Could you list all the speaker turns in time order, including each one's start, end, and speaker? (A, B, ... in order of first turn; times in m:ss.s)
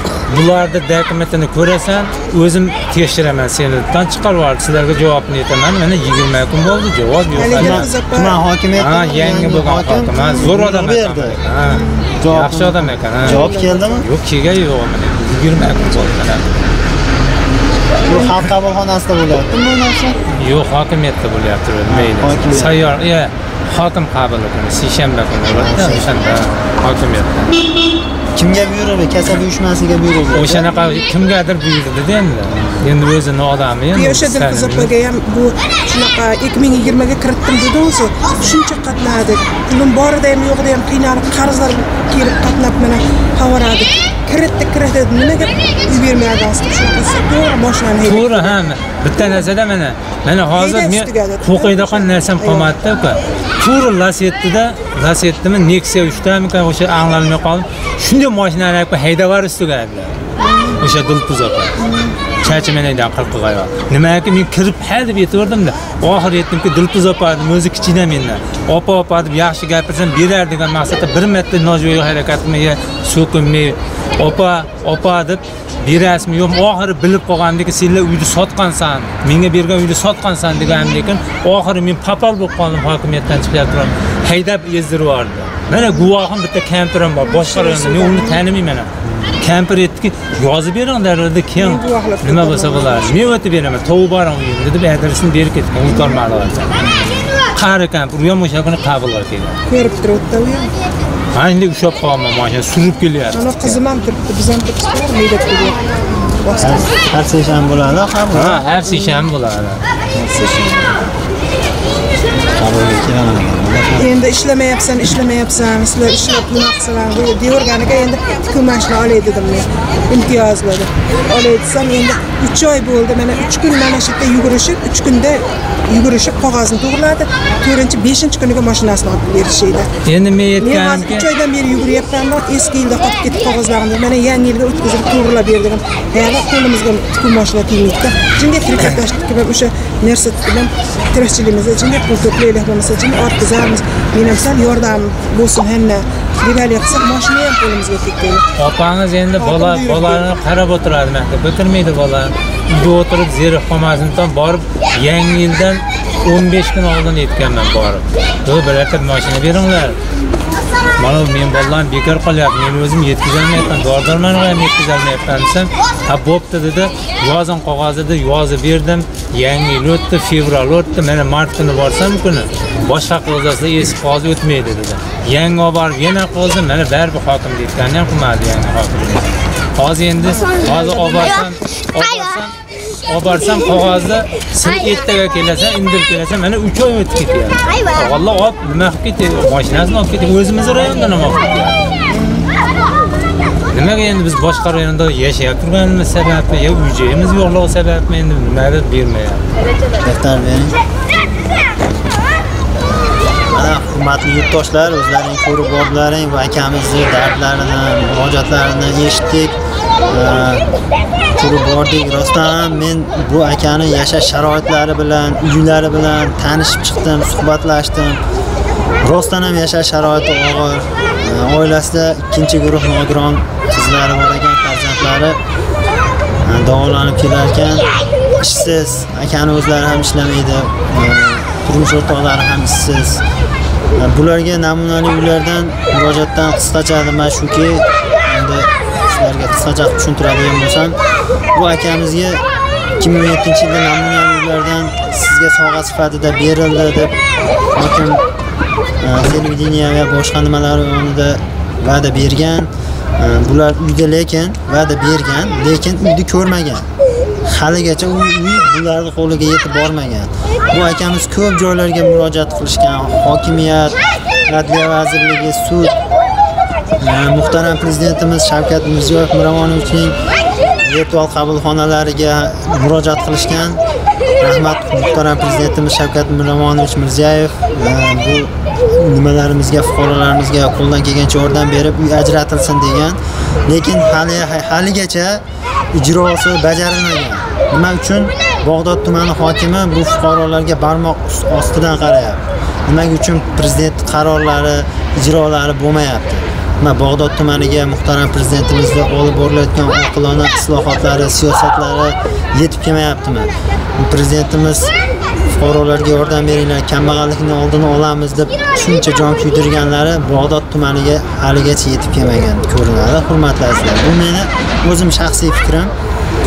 0:00.3-0:07.9 A
0:07.4-0:08.4 B
0:07.5-0:11.4 C
0:08.8-0:16.5 A
0:10.2-0:10.4 B
0:11.7-0:12.1 B
0:12.2-0:14.0 C
0:13.2-0:14.0 B
0:15.6-0:16.0 B
0:18.0-0:20.2 C
0:20.3-0:27.5 A
0:21.9-0:22.8 C
0:25.4-0:26.2 C
0:28.3-0:30.7 C
0:30.3-0:34.9 A
0:32.5-0:32.9 C
0:33.9-0:48.5 B
0:48.0-1:00.1 A
0:50.5-0:52.7 B
1:00.4-1:00.8 B
1:00.8-1:01.7 A
1:01.8-1:02.2 B
1:02.4-1:36.8 A
1:20.6-1:21.1 B
1:25.7-1:26.1 B
1:27.2-1:28.4 B
1:29.0-1:29.4 C
1:31.6-1:33.3 B
1:35.9-1:36.2 B
1:36.8-1:37.2 C
1:37.5-1:39.6 A
1:39.7-1:40.7 B
1:41.3-1:43.8 A
1:43.3-1:46.9 B
1:46.6-1:48.6 C
1:48.3-1:49.8 A
1:48.9-1:49.2 B
1:50.1-1:51.1 B
1:52.6-1:54.1 C
1:54.0-2:09.9 B
2:10.0-2:11.2 A
2:10.6-2:28.4 B
2:28.6-2:40.0 A
2:29.4-2:30.3 B
2:41.0-3:11.8 A
3:00.3-3:01.2 B
3:12.1-3:12.5 B
3:13.7-3:19.4 A
3:20.0-3:20.7 C
3:23.5-3:30.7 C
3:31.3-3:38.2 C
3:39.0-3:45.4 C
3:46.4-3:53.2 C
3:54.0-4:01.0 C
4:01.5-4:02.4 C
4:03.0-4:07.1 C
4:07.7-4:08.2 C
4:09.0-4:16.9 C
4:17.4-4:26.0 C
4:27.0-4:30.2 C
4:30.8-4:33.8 C
4:34.4-5:04.9 C
5:05.4-5:15.9 C